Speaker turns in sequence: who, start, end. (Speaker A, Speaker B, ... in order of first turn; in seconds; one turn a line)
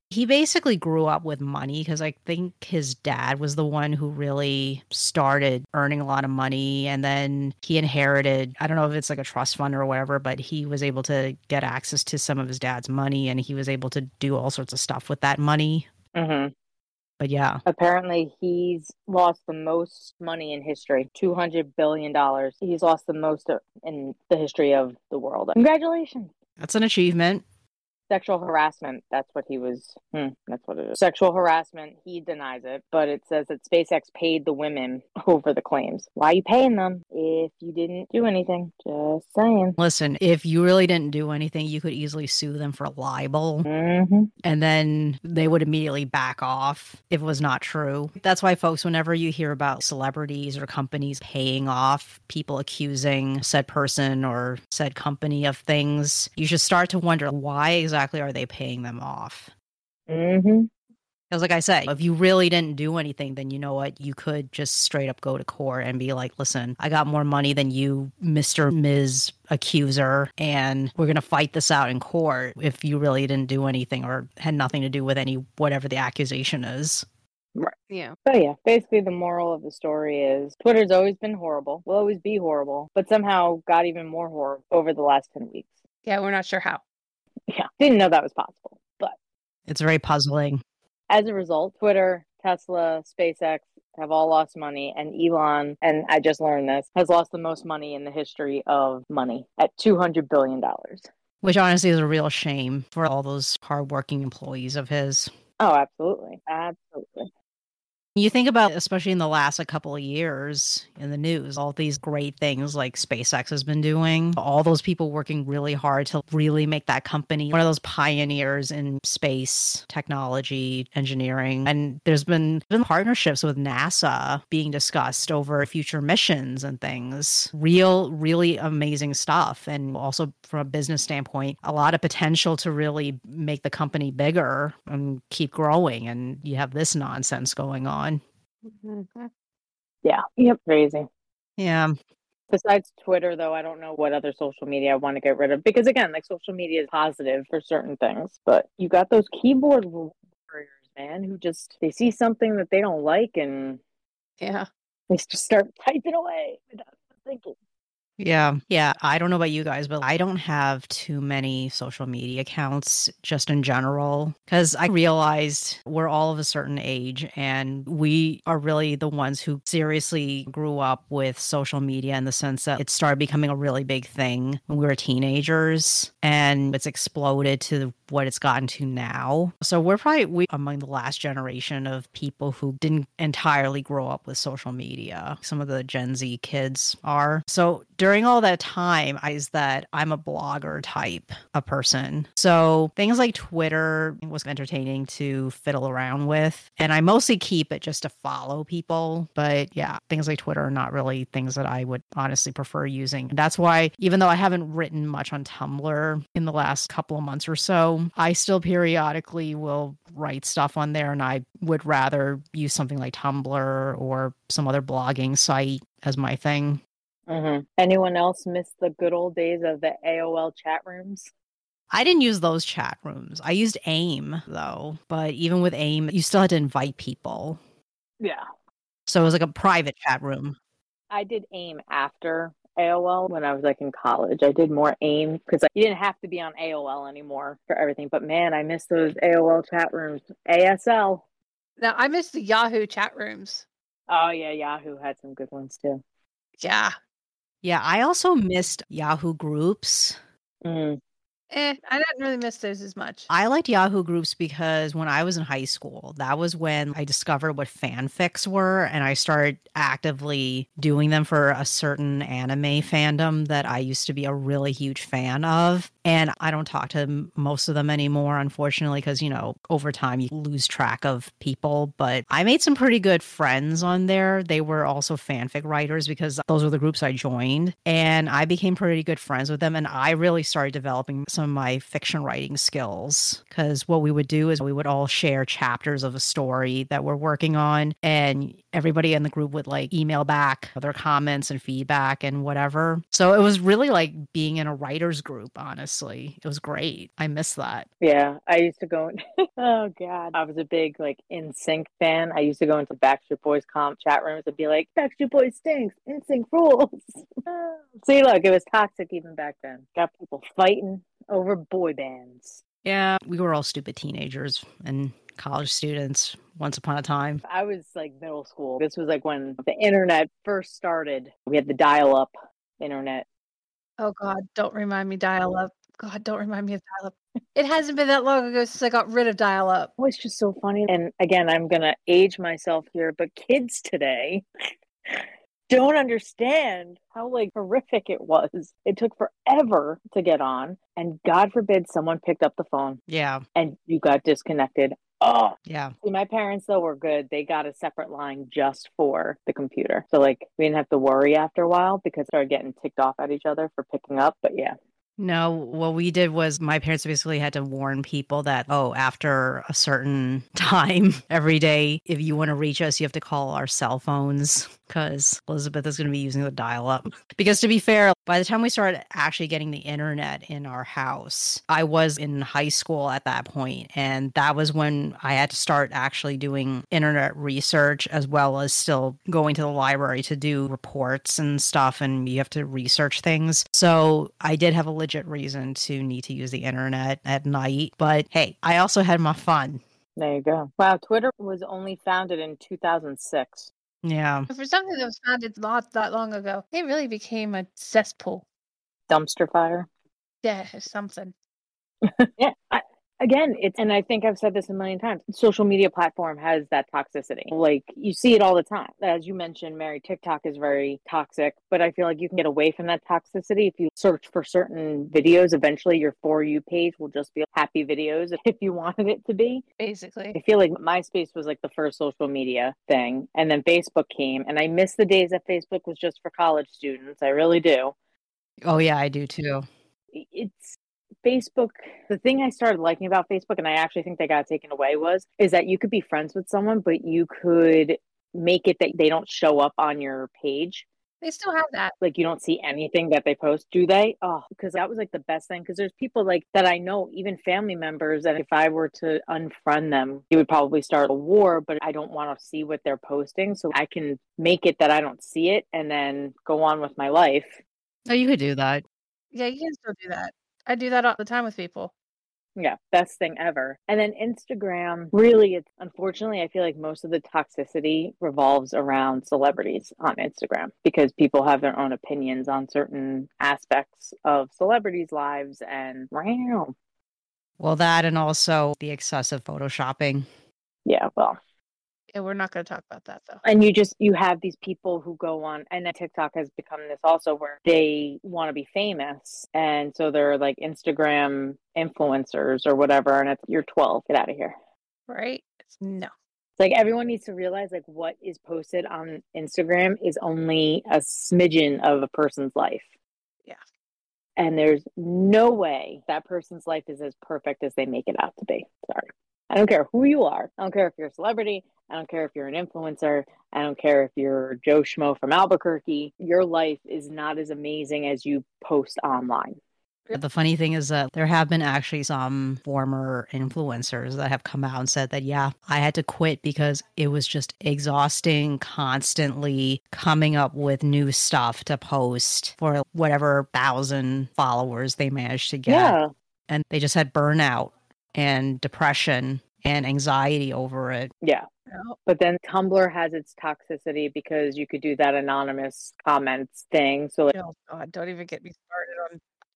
Speaker A: 0.1-15.9
Speaker B: 16.1-16.5
Speaker A: 17.2-17.6
Speaker B: 17.6-26.3
Speaker A: 26.6-27.4
Speaker B: 28.1-39.8
Speaker A: 39.8-43.7
Speaker B: 43.6-44.3
Speaker A: 44.4-59.5
Speaker B: 60.1-60.7
Speaker A: 61.3-77.0
Speaker B: 77.5-85.7
Speaker C: 77.9-78.2
Speaker C: 86.0-86.8
Speaker B: 87.5-89.2
Speaker A: 89.7-90.6
Speaker B: 91.1-101.1
Speaker A: 101.4-105.3
Speaker B: 105.6-107.3
Speaker A: 108.2-138.2
Speaker C: 138.7-139.3
Speaker B: 140.0-141.1
Speaker A: 141.6-141.9
Speaker B: 142.5-153.8
Speaker C: 154.4-154.7
Speaker B: 155.1-157.5
Speaker A: 158.2-216.8
Speaker B: 217.3-221.3
Speaker A: 221.9-227.6
Speaker A: 229.1-230.6
Speaker B: 231.1-241.2
Speaker C: 241.8-243.6
Speaker B: 244.1-246.0
Speaker C: 246.6-246.9
Speaker A: 247.6-250.2
Speaker B: 250.6-251.0
Speaker C: 251.5-253.3
Speaker A: 253.3-297.9
Speaker B: 298.0-312.6
Speaker A: 312.8-317.4
Speaker B: 317.4-323.2
Speaker C: 324.0-329.9
Speaker B: 330.0-334.4
Speaker B: 335.1-343.0
Speaker A: 343.1-343.4
Speaker B: 343.5-354.7
Speaker A: 345.6-345.9
Speaker A: 355.2-389.8
Speaker B: 390.2-393.7
Speaker A: 394.0-394.5
Speaker C: 394.5-398.4
Speaker B: 399.1-399.9
Speaker C: 400.4-401.3
Speaker B: 402.0-419.6
Speaker C: 419.8-420.4
Speaker B: 420.3-427.9
Speaker A: 428.6-429.6
Speaker B: 430.1-440.9
Speaker C: 441.2-441.9
Speaker B: 442.0-457.6
Speaker A: 458.1-458.8
Speaker C: 459.3-461.9
Speaker B: 462.6-476.7
Speaker A: 477.6-480.2
Speaker B: 480.8-481.4
Speaker C: 482.1-483.4
Speaker B: 483.4-494.5
Speaker C: 495.1-496.1
Speaker B: 496.6-502.9
Speaker B: 504.4-519.6
Speaker A: 520.1-536.0
Speaker B: 535.7-536.1
Speaker A: 536.5-541.1
Speaker C: 541.7-542.0
Speaker B: 542.0-547.3
Speaker C: 547.3-549.2